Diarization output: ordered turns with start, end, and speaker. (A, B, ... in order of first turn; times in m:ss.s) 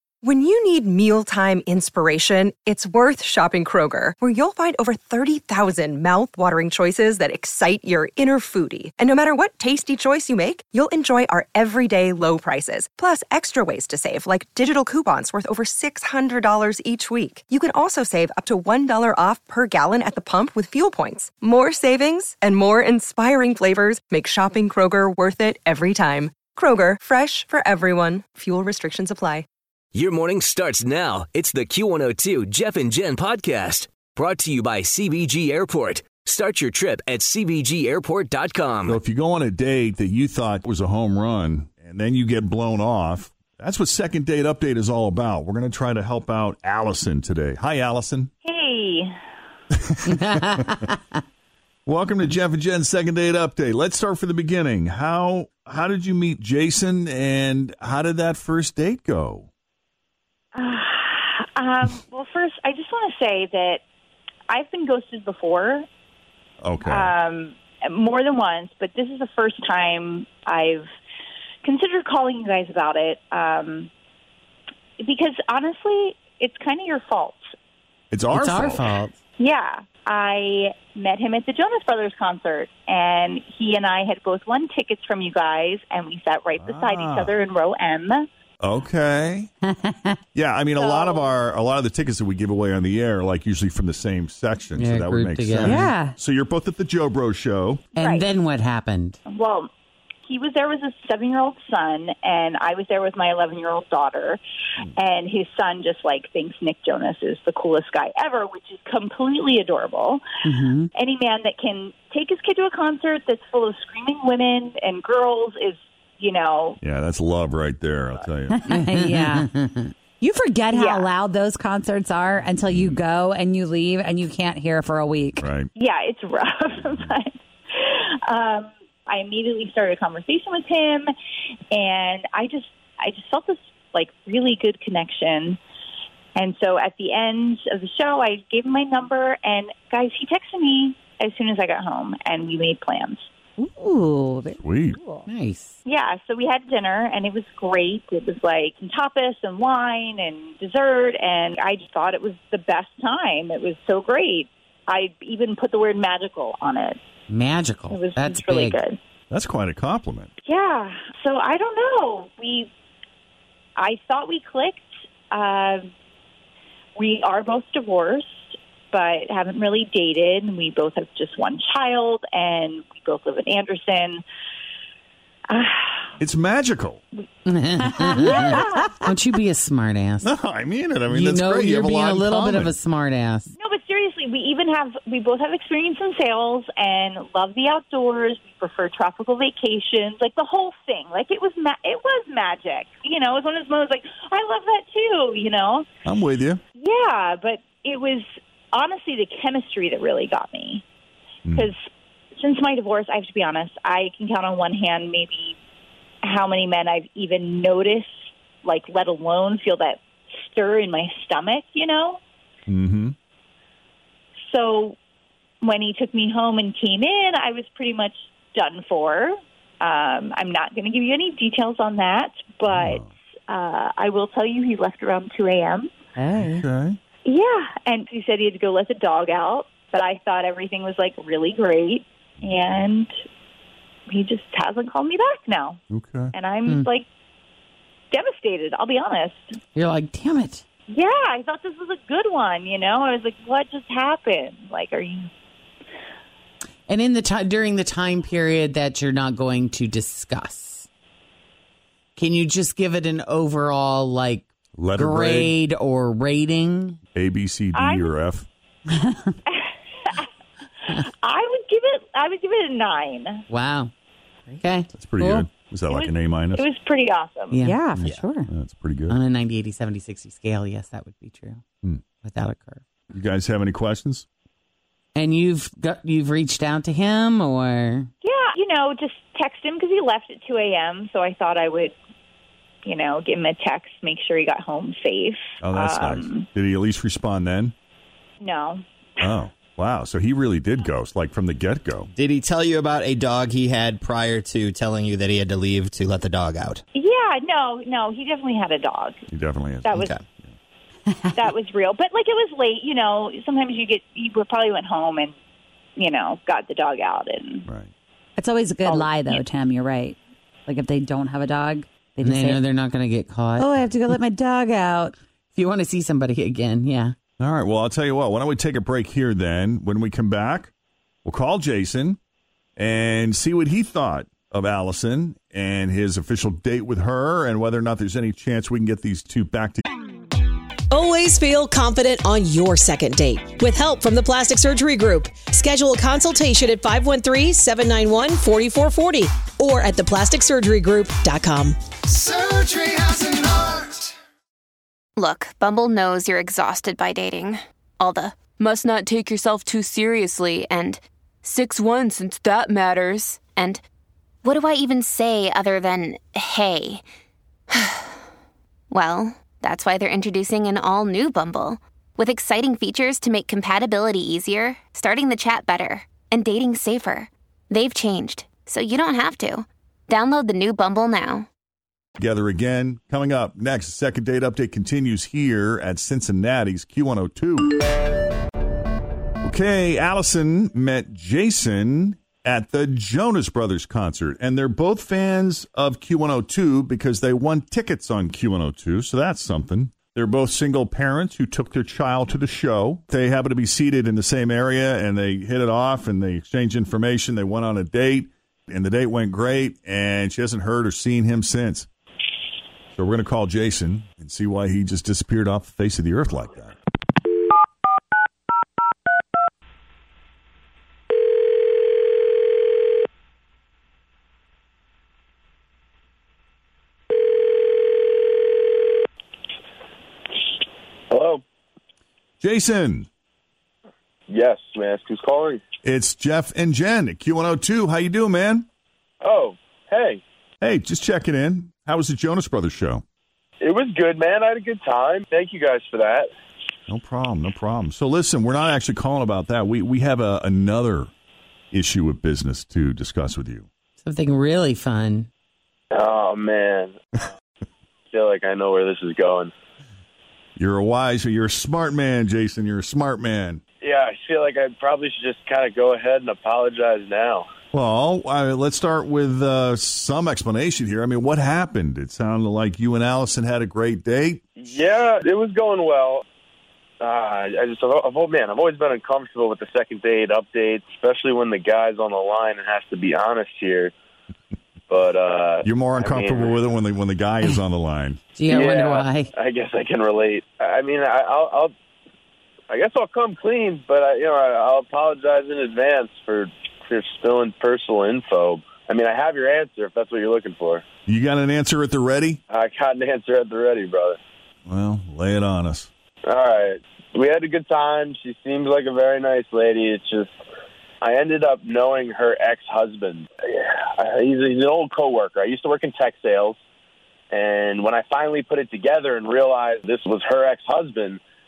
0:00.2-0:29.4 A
0:29.9-0:39.0 B
0:38.8-0:48.3 C
0:48.4-0:49.1 D
0:49.7-0:50.7 C
0:50.1-0:50.9 E
0:51.8-0:59.5 C
1:00.5-1:03.8 D
1:04.5-1:05.8 D
1:06.6-1:07.1 C
1:06.8-1:10.9 D
1:11.6-1:13.9 D
1:15.0-1:17.4 D
1:18.1-1:18.8 C
1:18.3-1:19.2 E
1:19.4-1:28.2 D
1:26.6-1:27.4 C
1:28.6-1:29.5 C
1:30.3-1:37.8 C
1:30.8-1:31.3 D
1:34.8-1:36.0 E
1:35.6-1:36.1 F
1:37.9-1:39.2 E
1:38.0-1:38.2 D
1:39.3-1:39.7 D
1:40.3-1:44.4 D
1:45.0-1:50.2 D
1:50.4-1:50.8 E
1:50.9-1:56.8 D
1:56.8-1:58.6 C
1:58.5-1:59.5 F
1:58.7-1:59.6 E
2:00.2-2:05.5 F
2:00.7-2:01.1 D
2:02.6-2:03.0 C
2:05.4-2:05.7 C
2:05.7-2:11.1 D
2:11.7-2:15.6 D
2:16.4-2:23.2 D
2:23.6-2:25.2 F
2:24.6-2:25.0 C
2:25.2-2:25.8 E
2:25.8-2:37.0 D
2:37.3-2:38.8 E
2:37.9-2:39.0 D
2:39.3-2:40.3 C
2:40.4-2:42.7 D
2:43.8-2:45.9 D
2:47.0-2:54.2 D
2:55.5-2:56.1 D
2:56.2-2:57.0 C
2:57.4-3:00.3 E
2:58.2-2:58.9 D
3:00.2-3:02.7 C
3:01.1-3:03.5 E
3:03.5-3:15.8 D
3:16.0-3:16.6 C
3:16.8-3:20.8 D
3:21.5-3:21.8 D
3:22.4-3:25.6 D
3:26.2-3:32.2 D
3:32.7-3:33.1 C
3:34.5-3:35.0 D
3:35.6-3:45.9 D
3:42.7-3:43.1 C
3:46.2-3:46.6 F
3:46.3-3:47.0 C
3:47.2-3:53.1 D
3:54.1-3:55.8 D
3:55.9-3:56.3 C
3:56.3-3:57.1 D
3:58.1-3:59.4 D
3:59.7-4:00.6 E
4:00.9-4:05.3 D
4:06.9-4:10.9 E
4:12.2-4:17.0 E
4:14.8-4:15.5 C
4:17.1-4:18.5 C
4:17.7-4:18.1 D
4:19.5-4:20.2 D
4:21.2-4:23.4 D
4:23.5-4:23.9 E
4:24.6-4:24.9 E
4:24.9-4:26.6 C
4:25.2-4:25.4 F
4:25.9-4:27.6 D
4:27.5-4:27.9 E
4:27.6-4:28.5 F
4:28.0-4:28.3 G
4:28.5-4:29.2 C
4:29.1-4:31.6 E
4:32.2-4:32.8 E
4:33.1-4:34.2 C
4:35.1-4:38.1 E
4:38.2-4:42.0 D
4:42.8-4:46.4 D
4:45.6-4:47.7 C
4:48.4-4:49.2 D
4:49.2-4:52.1 C
4:52.1-4:56.8 G
4:56.9-4:59.2 D
4:59.3-5:00.5 C
4:59.8-5:00.1 D
4:59.9-5:00.2 G
5:01.3-5:05.3 D
5:06.0-5:07.7 D
5:08.4-5:12.6 F
5:08.8-5:09.4 D
5:12.2-5:13.8 E
5:13.6-5:15.1 F
5:15.5-5:17.1 E
5:17.4-5:20.7 C
5:21.2-5:22.2 C
5:22.8-5:29.9 C
5:30.9-5:42.3 H
5:45.2-5:53.8 I
5:54.4-5:57.0 I
5:57.7-5:58.1 I
5:58.9-6:11.5 I
6:12.2-6:17.8 C
6:19.4-6:41.9 C
6:42.9-6:46.8 C
7:01.1-7:01.4 J
7:02.4-7:03.1 C
7:04.3-7:05.6 J
7:05.8-7:08.7 C
7:09.2-7:10.2 J
7:10.6-7:13.0 C
7:13.6-7:16.3 J
7:16.9-7:21.1 C
7:21.7-7:23.7 C
7:24.0-7:25.3 E
7:25.9-7:27.0 J
7:28.1-7:29.5 J
7:30.6-7:33.6 C
7:33.8-7:37.5 J
7:37.7-7:44.4 C
7:44.6-7:46.2 J
7:47.0-7:53.9 J
7:54.9-7:56.5 J
7:55.6-7:58.2 C
7:58.3-7:59.3 E
7:58.5-8:01.7 J
8:02.7-8:10.8 J
8:11.0-8:12.4 C
8:12.5-8:14.2 J
8:14.7-8:15.9 C
8:16.3-8:20.3 J
8:21.0-8:26.6 J
8:27.3-8:31.2 J